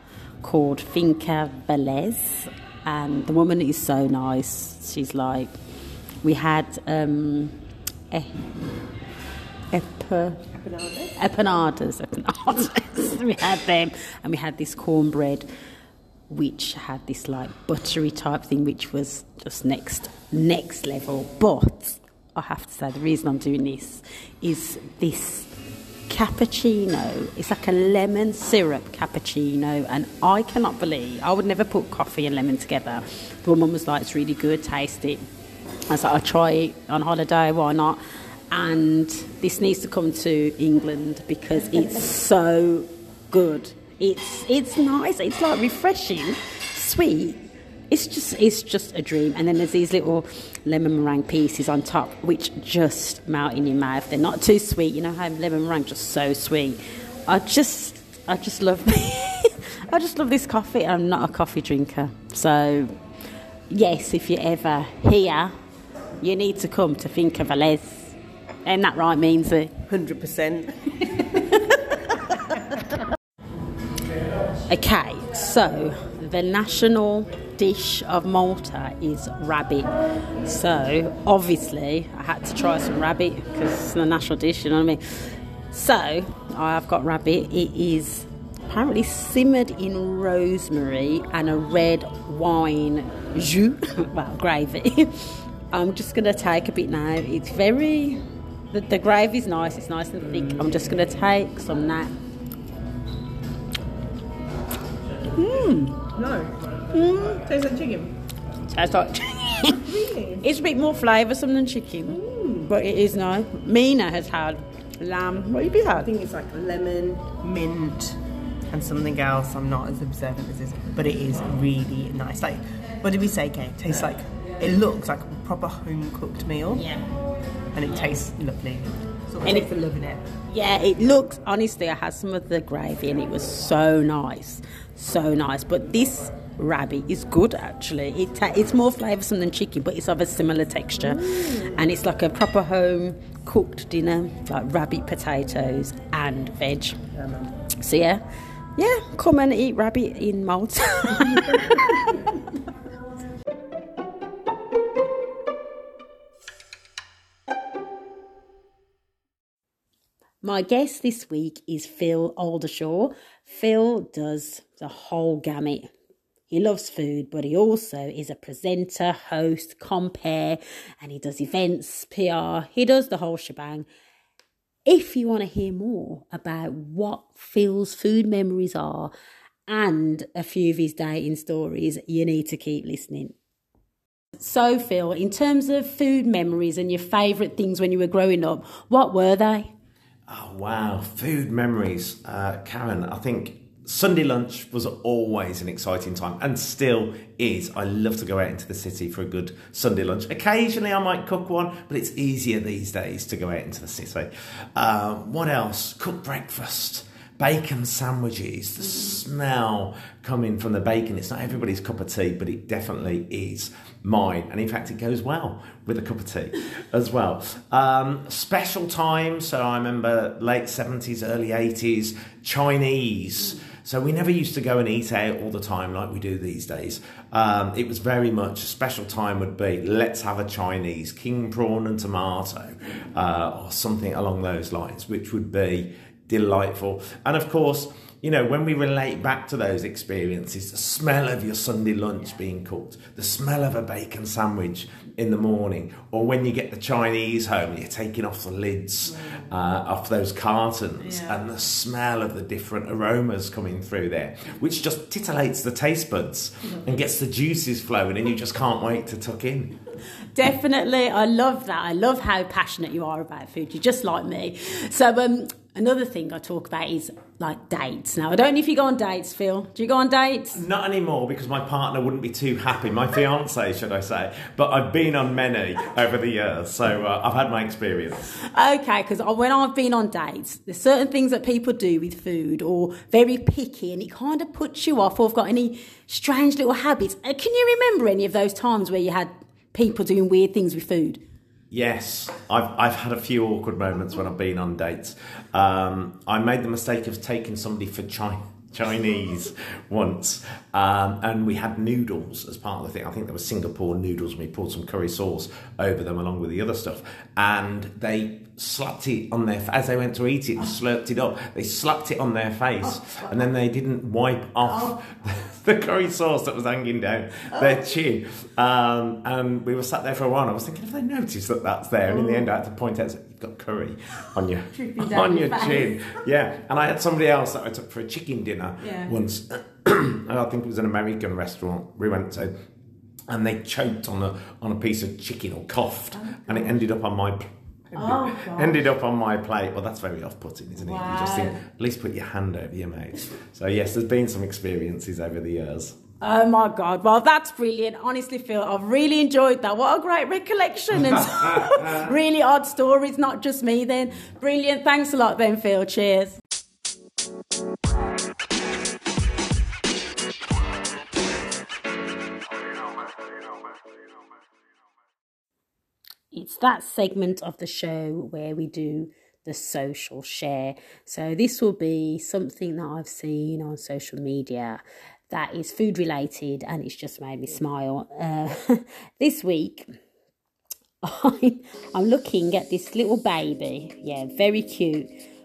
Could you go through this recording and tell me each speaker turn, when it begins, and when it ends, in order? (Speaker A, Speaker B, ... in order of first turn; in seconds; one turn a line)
Speaker A: 0.4-5.5
Speaker A: 6.2-7.6
Speaker A: 8.1-8.4
Speaker A: 9.7-10.4
Speaker B: 10.4-11.1
Speaker A: 11.2-15.5
Speaker A: 16.3-25.5
Speaker A: 26.1-35.2
Speaker A: 35.9-38.0
Speaker A: 38.5-62.9
Speaker A: 63.7-65.5
Speaker A: 66.2-69.7
Speaker B: 69.9-71.2
Speaker A: 71.3-72.4
Speaker A: 74.7-79.9
Speaker A: 80.4-85.0
Speaker A: 85.7-102.1
Speaker A: 105.4-106.1
Speaker B: 106.1-106.5
Speaker A: 106.9-107.4
Speaker B: 107.2-108.1
Speaker A: 108.7-116.1
Speaker B: 109.8-110.4
Speaker B: 112.1-112.7
Speaker B: 115.9-118.2
Speaker B: 118.7-126.9
Speaker A: 126.7-127.1
Speaker B: 127.7-130.2
Speaker A: 127.9-128.2
Speaker A: 129.4-129.7
Speaker A: 130.5-147.0
Speaker B: 147.2-147.5
Speaker A: 147.8-148.2
Speaker A: 148.8-152.2
Speaker A: 160.4-165.9
Speaker A: 166.5-173.9
Speaker A: 174.9-179.1
Speaker A: 179.7-183.4
Speaker A: 184.4-189.7
Speaker C: 190.3-259.7
Speaker A: 260.4-270.6
Speaker C: 270.5-278.3
Speaker A: 278.5-291.2
Speaker C: 291.7-332.5
Speaker A: 325.5-325.8
Speaker C: 333.3-346.0
Speaker A: 338.1-338.6
Speaker A: 340.8-341.6
Speaker A: 346.2-356.4
Speaker C: 351.3-352.0
Speaker A: 366.3-379.9
Speaker A: 381.0-385.1